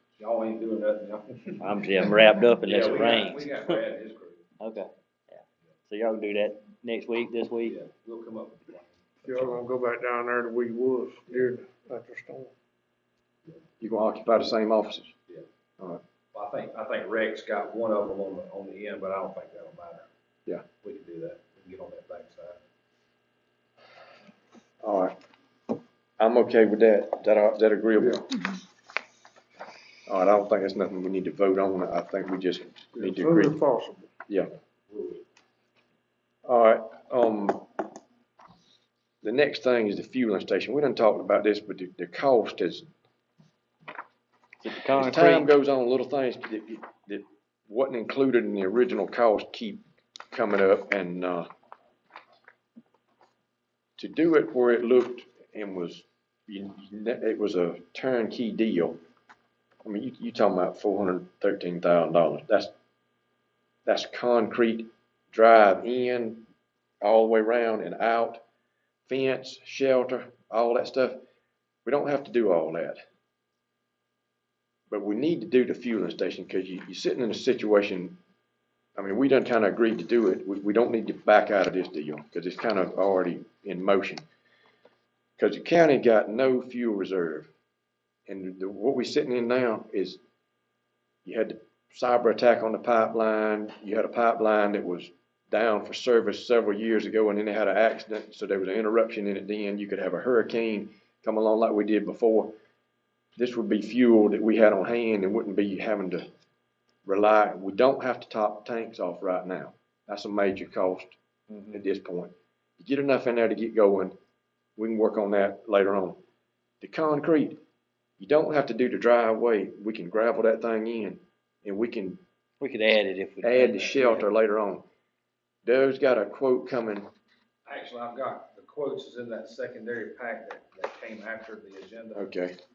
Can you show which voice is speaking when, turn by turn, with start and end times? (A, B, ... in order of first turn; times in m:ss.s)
0:00.2-0:02.1 A
0:01.6-0:03.8 B
0:02.6-0:04.5 A
0:04.6-0:07.8 B
0:07.6-0:09.6 A
0:09.2-0:12.5 C
0:13.8-0:15.1 D
0:16.3-0:20.1 A
0:20.8-0:22.6 A
0:24.8-0:25.1 D
0:26.2-0:28.3 D
0:30.1-0:33.6 D
0:32.9-0:34.1 C
0:34.9-0:35.2 A
0:36.4-0:37.6 D
0:39.2-0:42.9 D
0:44.6-0:45.5 B
0:44.9-0:51.5 D
0:54.0-0:59.0 D
0:59.8-1:02.7 D
1:03.8-1:06.5 D
1:07.0-1:08.4 D
1:09.1-1:11.2 D
1:11.8-1:13.0 D
1:14.9-1:18.2 D
1:19.0-1:24.2 D
1:25.4-1:27.5 D
1:28.3-1:30.2 D
1:31.2-1:42.5 D
1:43.4-1:46.3 D
1:47.0-1:51.1 D
1:51.5-1:51.8 B
1:51.7-1:54.2 D
1:54.8-1:56.2 D
1:56.8-1:57.6 D
1:58.2-2:02.2 D
2:02.6-2:04.3 B
2:03.4-2:04.8 D
2:05.6-2:07.1 D
2:07.6-2:12.3 A
2:12.1-2:12.6 D